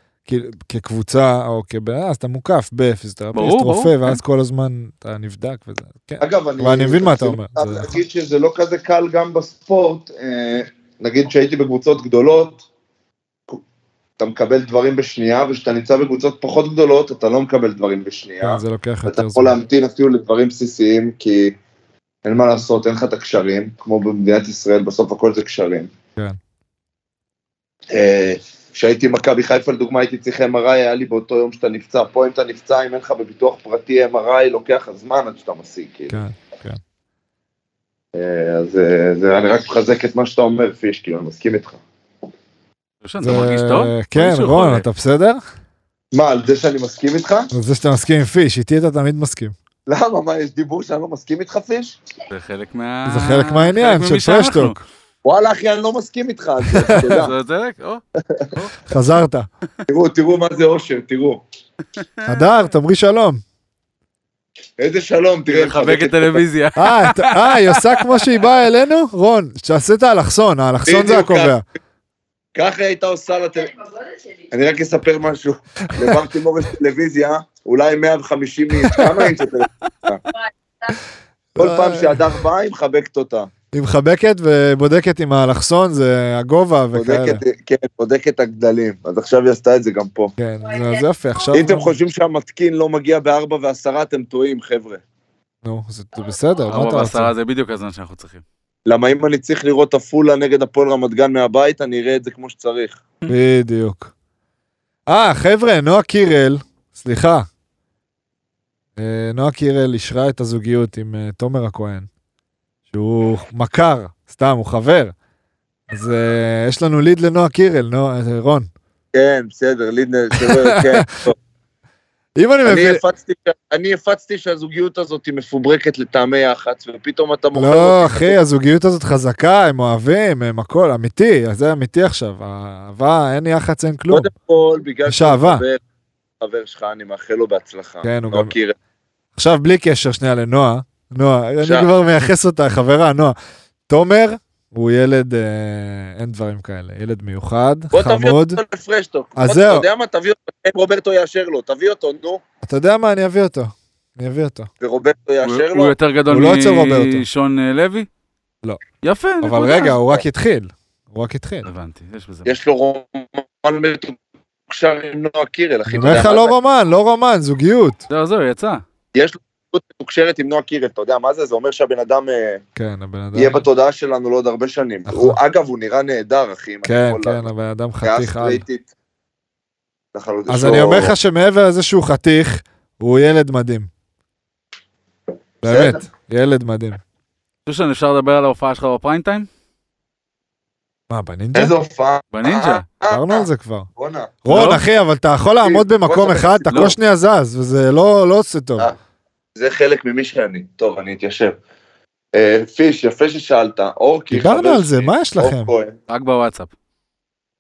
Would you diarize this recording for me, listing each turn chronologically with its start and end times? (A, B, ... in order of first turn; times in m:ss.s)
0:00.3-0:08.0 A
0:03.4-0:04.2 B
0:06.2-0:12.6 C
0:14.2-0:21.6 C
0:18.4-0:19.6 A
0:22.2-0:25.9 C
0:27.9-0:36.2 C
0:36.1-0:36.8 A
0:38.1-0:41.8 C
0:43.0-0:44.8 B
0:43.2-0:45.4 A
0:46.1-0:47.5 C
0:47.5-0:49.6 A
0:49.9-0:52.0 C
0:52.3-0:54.8 B
0:53.1-0:54.7 A
0:55.2-0:57.3 C
0:56.6-0:57.2 A
0:56.9-0:58.0 B
0:58.8-0:59.5 A
0:59.9-1:01.4 C
1:02.0-1:02.4 B
1:02.2-1:03.4 A
1:04.8-1:06.4 C
1:05.5-1:08.2 B
1:06.8-1:11.6 A
1:10.8-1:11.5 C
1:12.6-1:13.8 C
1:14.5-1:20.2 C
1:15.9-1:16.2 A
1:18.8-1:19.1 A
1:21.6-1:22.4 A
1:21.6-1:23.5 C
1:23.7-1:27.4 A
1:26.9-1:30.3 C
1:30.4-1:32.0 A
1:31.5-1:35.0 C
1:35.6-1:37.3 A
1:36.7-1:38.4 B
1:38.9-1:43.0 C
1:43.3-1:44.1 A
1:45.1-1:47.5 A
1:49.0-1:52.1 A
1:52.9-1:55.1 A
1:55.9-1:58.7 A
1:59.1-2:01.4 C
2:00.4-2:01.1 A
2:02.4-2:03.0 A
2:02.6-2:08.4 C
2:07.6-2:14.3 A
2:14.1-2:15.8 C
2:15.1-2:15.6 A
2:16.4-2:18.8 C
2:18.0-2:18.5 A
2:19.4-2:23.4 A
2:21.6-2:21.9 C
2:23.9-2:28.6 A
2:27.9-2:32.4 C
2:29.4-2:29.9 A
2:32.6-2:34.7 A
2:34.8-2:36.0 C
2:35.4-2:38.1 B
2:36.3-2:37.2 A
2:39.0-2:40.0 B
2:39.4-2:41.7 A
2:41.6-2:42.5 B
2:42.4-2:46.5 C
2:45.9-2:48.0 A
2:48.1-2:48.8 B
2:49.2-2:52.6 C
2:52.8-2:53.6 A
2:53.4-2:58.9 C
2:55.1-2:55.4 A
2:56.8-2:58.6 A
3:00.1-3:01.2 C
3:00.5-3:03.9 A
3:05.6-3:07.0 A
3:05.6-3:06.0 C
3:07.7-3:09.5 B
3:11.1-3:11.7 A
3:11.5-3:14.4 C
3:12.3-3:12.8 B
3:13.1-3:13.9 A
3:14.4-3:18.9 A
3:14.5-3:14.8 B
3:15.6-3:16.9 C
3:19.6-3:21.6 C
3:22.3-3:26.0 C
3:24.3-3:25.7 A
3:26.1-3:26.7 B